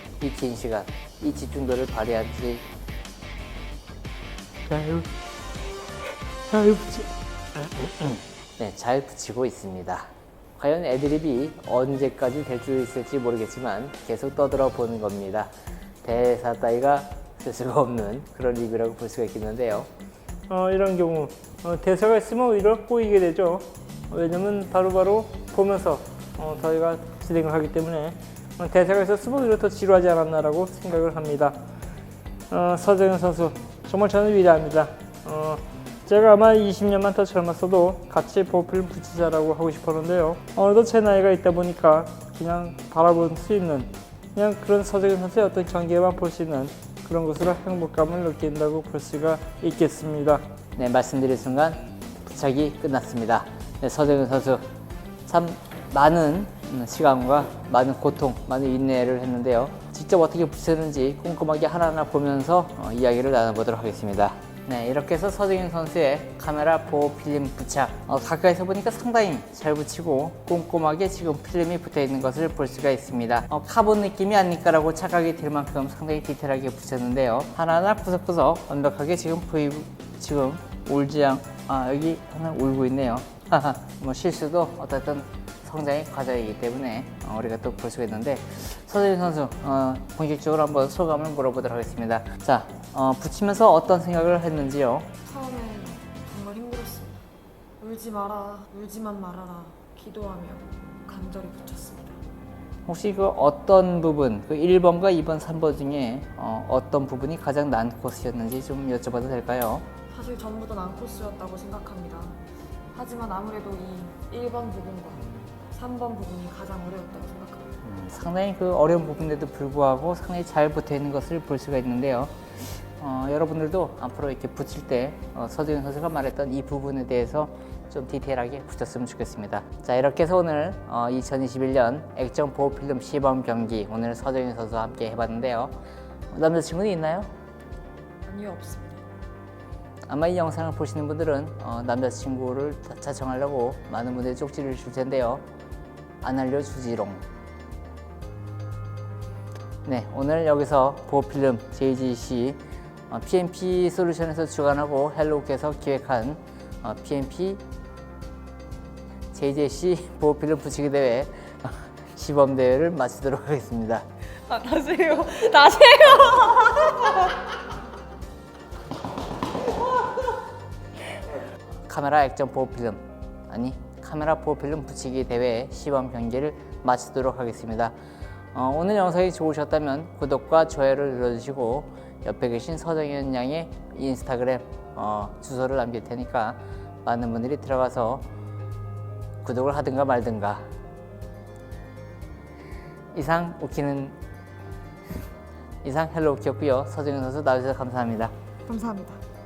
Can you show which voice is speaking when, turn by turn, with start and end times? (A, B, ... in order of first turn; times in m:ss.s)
0:00.2-0:02.6 A
0:04.7-0:05.1 A
0:06.5-0:15.5 A
0:16.0-0:19.9 A
0:20.5-0:31.6 B
0:32.5-0:50.4 B
0:50.8-0:54.6 A
0:55.2-1:35.1 A
1:35.2-1:37.2 C
1:37.8-1:42.2 C
1:42.9-1:49.8 A
1:50.1-1:52.4 C
1:52.9-1:57.7 C
1:57.8-2:15.7 A
2:16.3-2:17.3 A
2:18.2-2:19.0 C
2:20.1-2:25.4 A
2:26.2-2:27.2 A
2:29.8-2:37.6 A
2:39.3-2:44.0 A
2:44.5-2:47.3 C
2:51.9-2:57.9 A
2:58.5-3:08.3 A
3:09.4-3:10.7 A
3:13.1-3:14.2 A
3:15.8-3:18.3 A
3:18.7-3:19.2 C